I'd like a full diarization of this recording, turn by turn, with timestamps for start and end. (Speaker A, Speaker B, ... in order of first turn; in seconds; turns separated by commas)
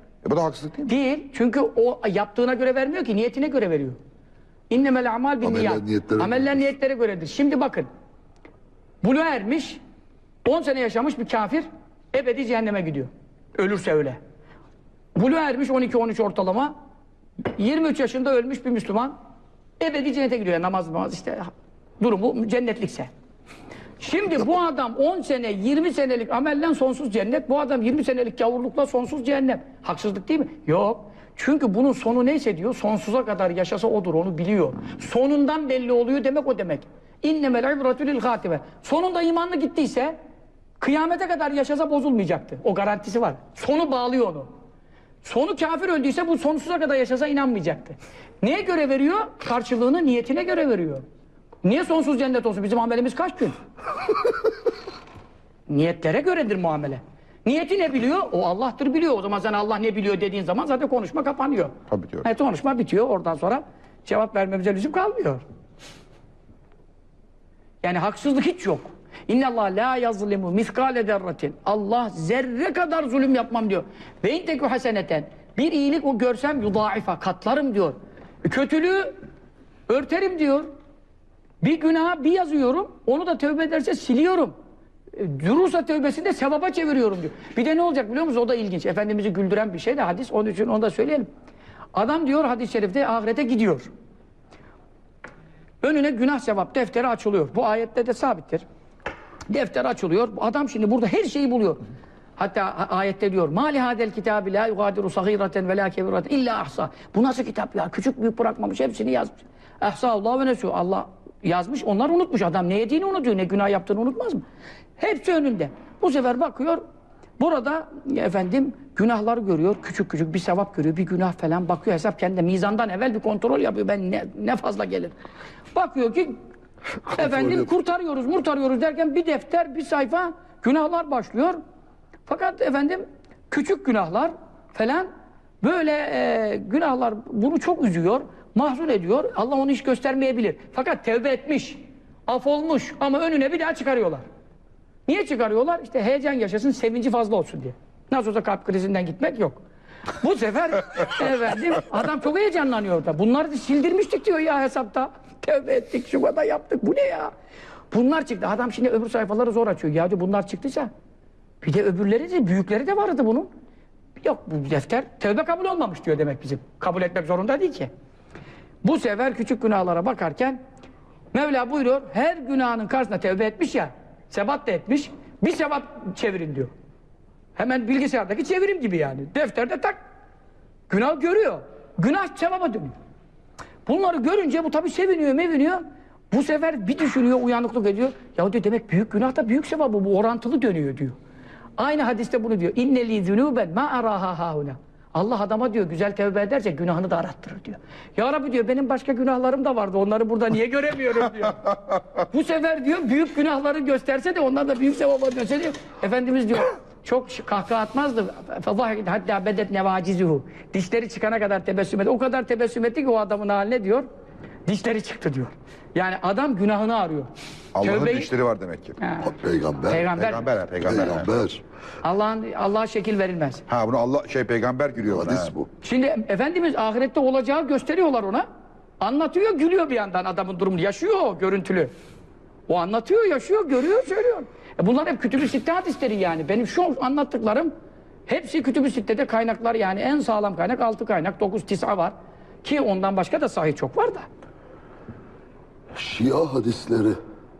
Speaker A: 0.2-0.9, Speaker B: 0.8-4.0, Speaker B: 4.7-7.9, Speaker C: 5.4-6.5, Speaker B: 9.0-9.8, Speaker B: 10.4-14.2, Speaker B: 15.1-16.7, Speaker B: 17.4-19.1, Speaker B: 19.8-21.5, Speaker B: 22.0-23.1, Speaker B: 24.0-40.1, Speaker B: 40.8-44.5, Speaker B: 45.2-51.0, Speaker B: 51.6-53.5, Speaker B: 55.7-65.4, Speaker A: 61.9-62.2, Speaker B: 67.8-79.1, Speaker B: 79.9-80.7, Speaker B: 81.6-84.5, Speaker B: 85.1-91.3, Speaker B: 91.9-93.9, Speaker B: 95.8-98.6, Speaker B: 99.5-101.8, Speaker B: 102.4-114.4, Speaker B: 115.0-116.8, Speaker B: 117.4-125.1, Speaker B: 125.7-126.3, Speaker C: 127.1-127.6, Speaker B: 127.1-131.6, Speaker B: 132.2-135.1, Speaker B: 135.6-144.2, Speaker B: 145.1-149.6, Speaker B: 150.2-157.3, Speaker B: 157.9-160.9, Speaker B: 161.6-163.5, Speaker B: 164.2-167.9, Speaker B: 168.8-170.6, Speaker B: 171.3-176.7, Speaker B: 177.6-180.0, Speaker B: 180.9-182.9, Speaker B: 183.8-191.1, Speaker B: 191.8-214.1, Speaker B: 214.7-217.3, Speaker A: 217.7-219.0, Speaker B: 217.8-218.3, Speaker B: 219.0-219.3, Speaker C: 219.2-220.1, Speaker B: 219.9-220.4, Speaker A: 220.1-221.4, Speaker C: 220.8-221.6, Speaker B: 222.0-223.6, Speaker A: 223.7-225.5, Speaker C: 225.0-225.7, Speaker B: 225.8-228.4, Speaker B: 229.0-231.9, Speaker B: 232.7-237.7, Speaker B: 238.3-244.3, Speaker C: 245.9-247.2